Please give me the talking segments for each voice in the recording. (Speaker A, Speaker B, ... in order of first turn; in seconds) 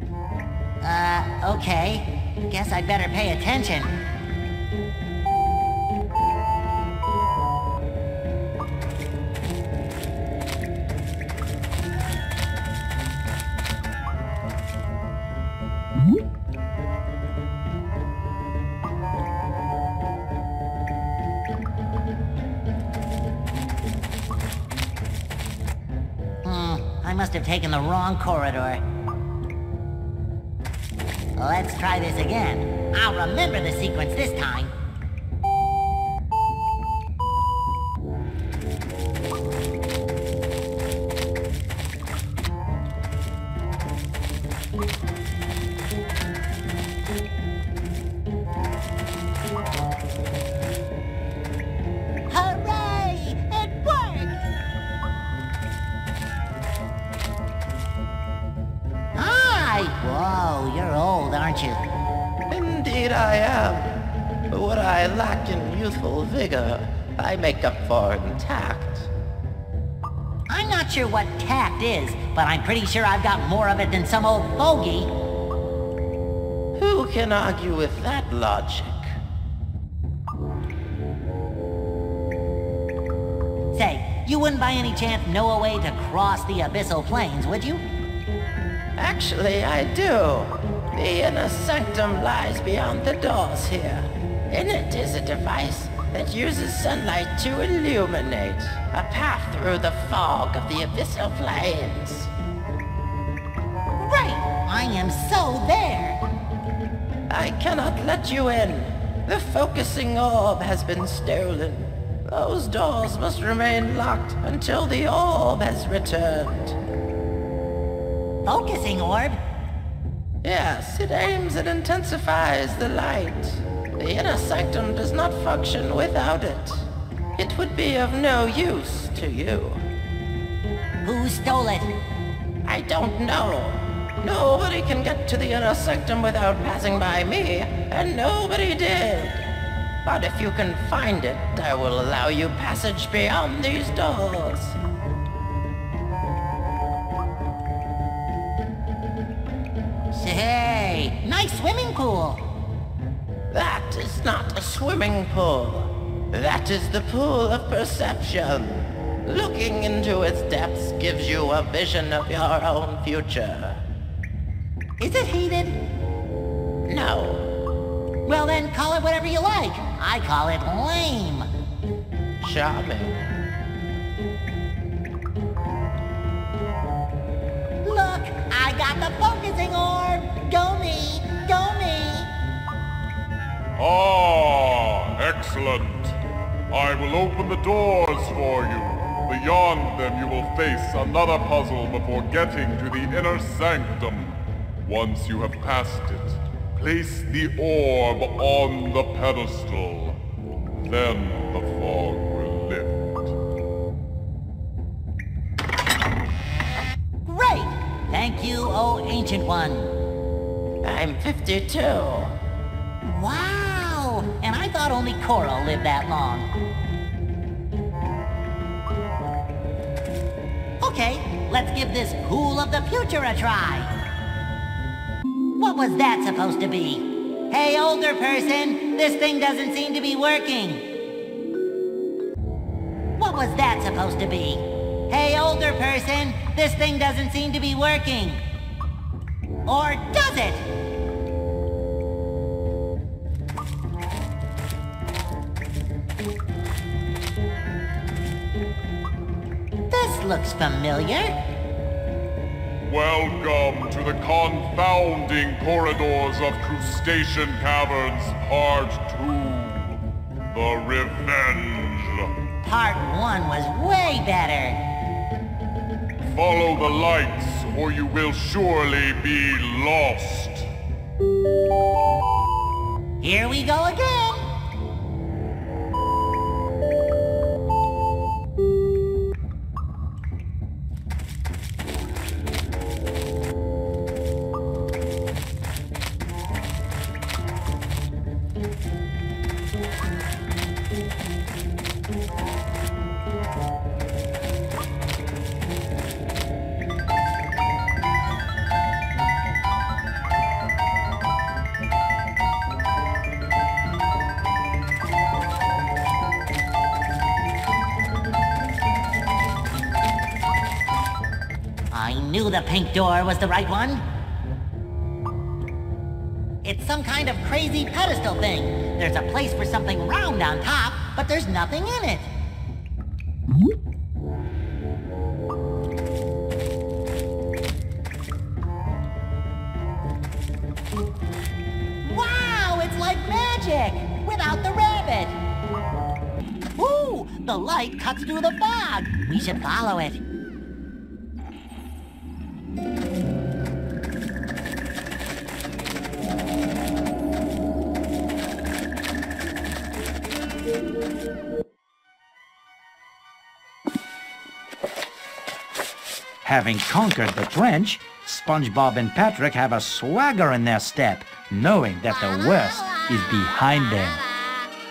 Speaker A: 0.8-3.9, 26.4-28.8, 31.4-34.7, 52.3-54.4, 59.1-61.8, 70.5-75.1, 83.7-87.8, 104.0-106.2, 118.4-119.4, 131.0-131.9, 150.1-152.4, 165.0-165.8, 168.2-171.5, 177.8-182.3, 207.2-209.9, 213.0-216.5, 220.8-223.9, 225.6-230.8, 233.2-238.4, 239.7-240.6, 249.9-251.3, 262.6-264.8, 273.2-274.5, 311.9-314.0, 316.6-322.3, 332.0-335.4, 336.8-340.2, 362.1-364.7
Speaker B: 62.5-64.0, 64.5-69.1, 76.8-79.1, 89.0-102.3, 107.3-116.8, 120.4-129.8, 132.6-139.5, 140.0-144.8, 153.5-163.8, 166.9-167.5, 172.4-173.3, 210.8-212.3
Speaker C: 183.8-186.1, 186.7-200.2, 200.8-203.3, 252.8-262.3, 266.2-270.7
Speaker D: 356.4-364.2